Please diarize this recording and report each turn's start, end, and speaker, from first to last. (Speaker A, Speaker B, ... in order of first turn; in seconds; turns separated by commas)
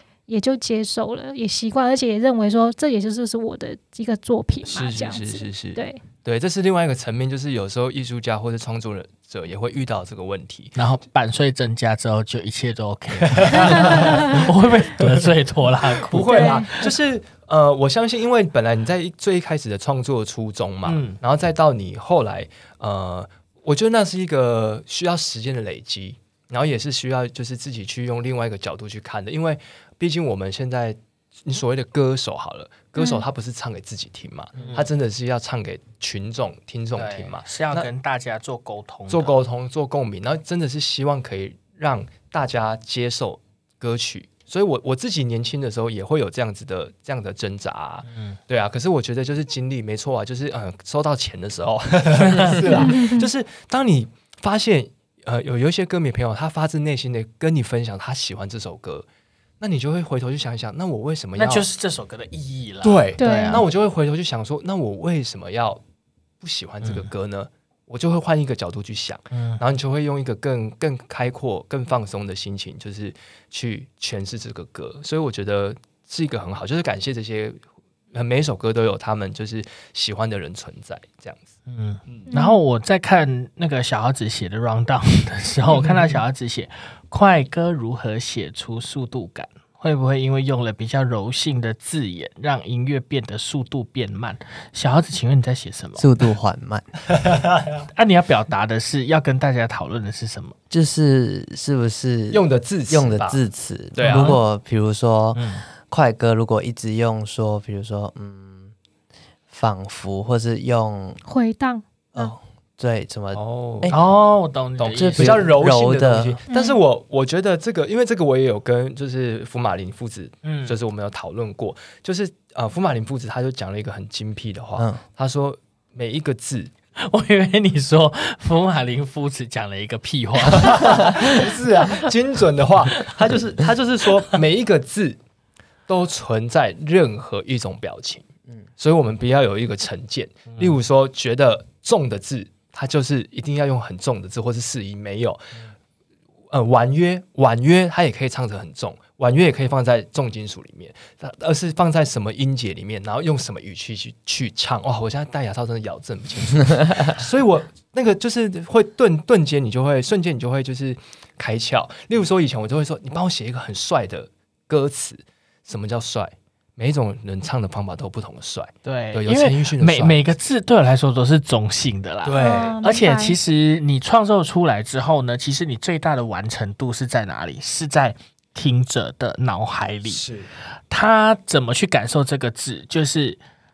Speaker A: 0.3-6.0, Speaker B: 4.7-10.8, Speaker C: 10.8-16.9, Speaker B: 13.2-15.3, Speaker A: 13.7-14.3, Speaker B: 15.9-37.9, Speaker A: 16.2-16.7, Speaker C: 20.8-21.2, Speaker A: 33.0-33.2, Speaker C: 34.6-34.9, Speaker C: 36.9-39.3, Speaker B: 39.1-59.1, Speaker C: 48.1-48.4, Speaker C: 52.2-52.9, Speaker A: 52.7-53.3, Speaker B: 59.6-61.6, Speaker C: 61.4-63.7, Speaker B: 62.8-65.8, Speaker A: 63.2-63.6, Speaker B: 66.4-77.6, Speaker C: 66.8-67.1, Speaker C: 69.3-69.6, Speaker B: 78.1-81.5, Speaker C: 81.7-96.1, Speaker A: 82.3-82.6, Speaker B: 85.7-86.2, Speaker D: 96.0-96.8, Speaker C: 97.8-100.5, Speaker D: 100.7-108.7, Speaker B: 102.3-103.4, Speaker B: 103.9-104.4, Speaker C: 104.0-104.4, Speaker C: 105.3-105.6, Speaker D: 109.5-111.2, Speaker A: 111.2-112.3, Speaker D: 112.1-114.0, Speaker B: 113.3-114.1, Speaker C: 113.9-115.5, Speaker B: 114.8-126.7, Speaker D: 115.0-116.4, Speaker A: 116.5-116.8, Speaker C: 120.4-120.8, Speaker C: 127.1-131.6, Speaker B: 130.4-135.2, Speaker B: 135.9-138.2, Speaker B: 138.8-145.5, Speaker C: 140.5-140.8, Speaker B: 146.5-170.2, Speaker C: 168.8-180.2, Speaker B: 172.2-172.8, Speaker A: 172.3-173.4, Speaker B: 180.1-180.5, Speaker C: 180.9-183.4